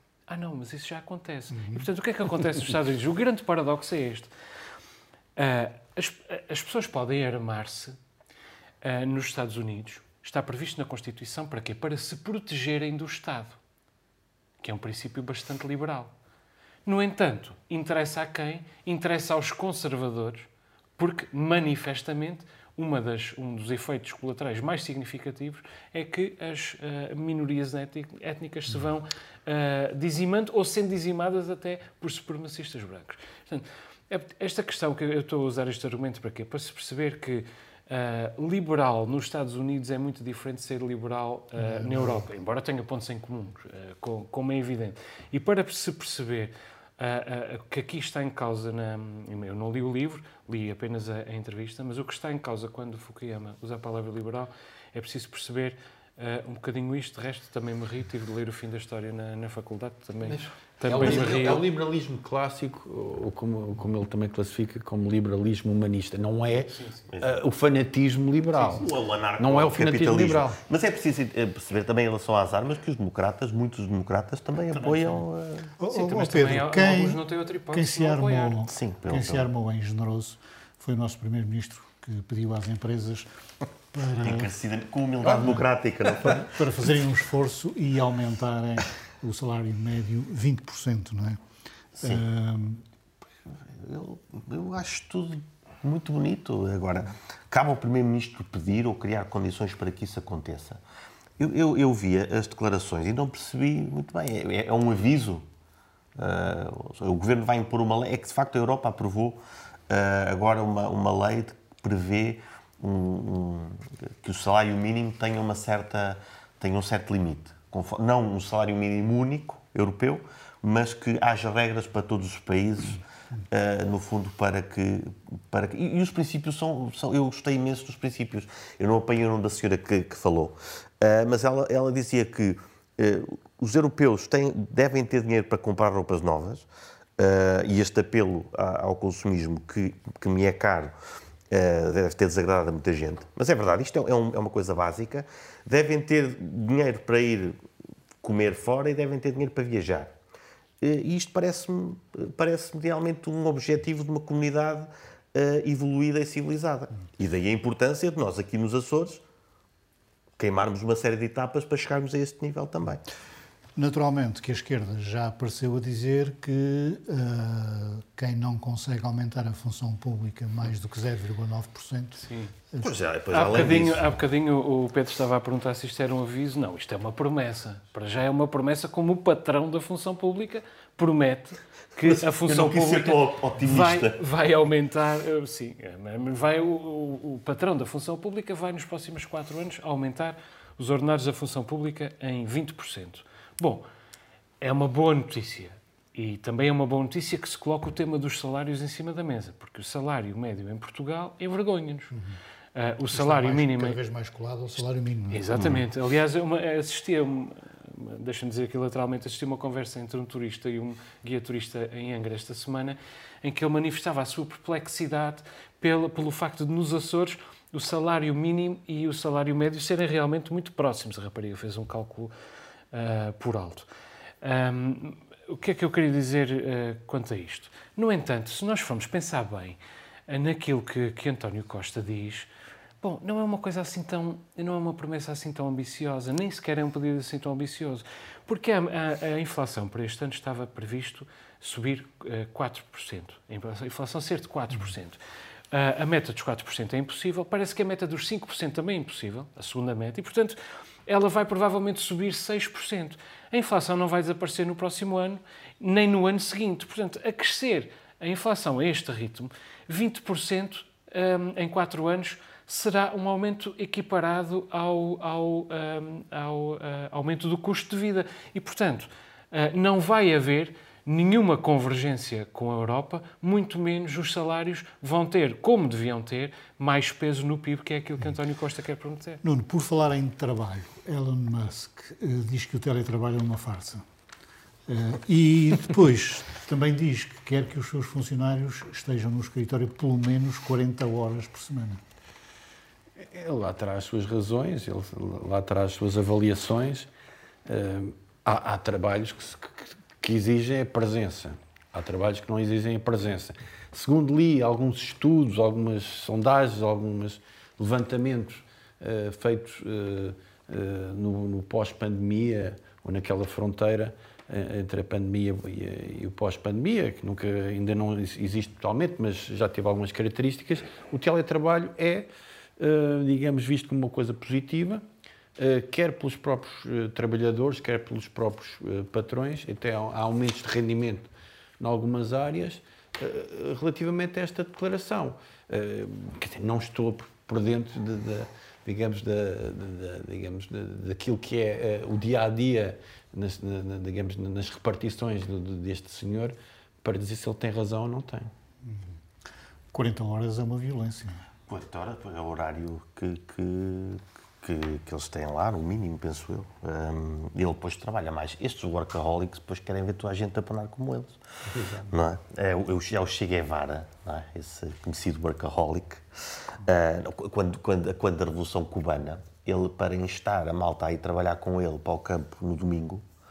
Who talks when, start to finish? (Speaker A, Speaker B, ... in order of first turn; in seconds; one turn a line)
Speaker A: 0.3-4.3
Speaker B: 1.5-1.9
Speaker A: 5.4-8.0
Speaker A: 8.8-13.6
Speaker A: 14.6-16.1
Speaker A: 16.9-61.7
Speaker B: 41.6-42.2
Speaker C: 60.2-68.9
Speaker A: 66.7-67.0
Speaker D: 67.1-67.4
Speaker D: 68.5-75.7
Speaker C: 69.4-70.6
Speaker B: 74.7-75.2
Speaker B: 75.8-83.3
Speaker A: 75.9-78.6
Speaker D: 78.7-79.5
Speaker B: 83.9-84.5
Speaker D: 84.2-86.5
Speaker C: 85.2-86.3
Speaker B: 86.2-91.4
Speaker B: 92.0-92.8
Speaker D: 93.7-100.8
Speaker D: 101.4-105.5
Speaker D: 106.2-109.4
Speaker D: 109.9-136.7
Speaker D: 137.2-140.9
Speaker D: 141.5-147.6
Speaker D: 148.2-150.1
Speaker D: 150.8-159.2
Speaker D: 160.4-163.0
Speaker B: 163.8-172.9
Speaker A: 172.2-172.5
Speaker D: 172.8-174.1
Speaker A: 173.3-193.8
Speaker D: 182.0-184.2
Speaker A: 194.6-202.1
Speaker B: 202.1-202.4
Speaker A: 202.7-204.0
Speaker B: 203.1-205.8
Speaker A: 205.3-222.3
Speaker A: 222.9-223.9
Speaker A: 224.4-232.5
Speaker A: 233.0-245.2
Speaker A: 245.7-279.4
Speaker B: 279.4-284.0
Speaker B: 284.9-292.0
Speaker C: 293.2-297.1
Speaker C: 297.7-322.3
Speaker C: 322.8-325.0
Speaker C: 325.6-348.5
Speaker B: 349.9-351.4
Speaker D: 351.7-361.4
Speaker C: 361.8-362.0
Speaker D: 362.1-366.2
Speaker D: 366.8-373.2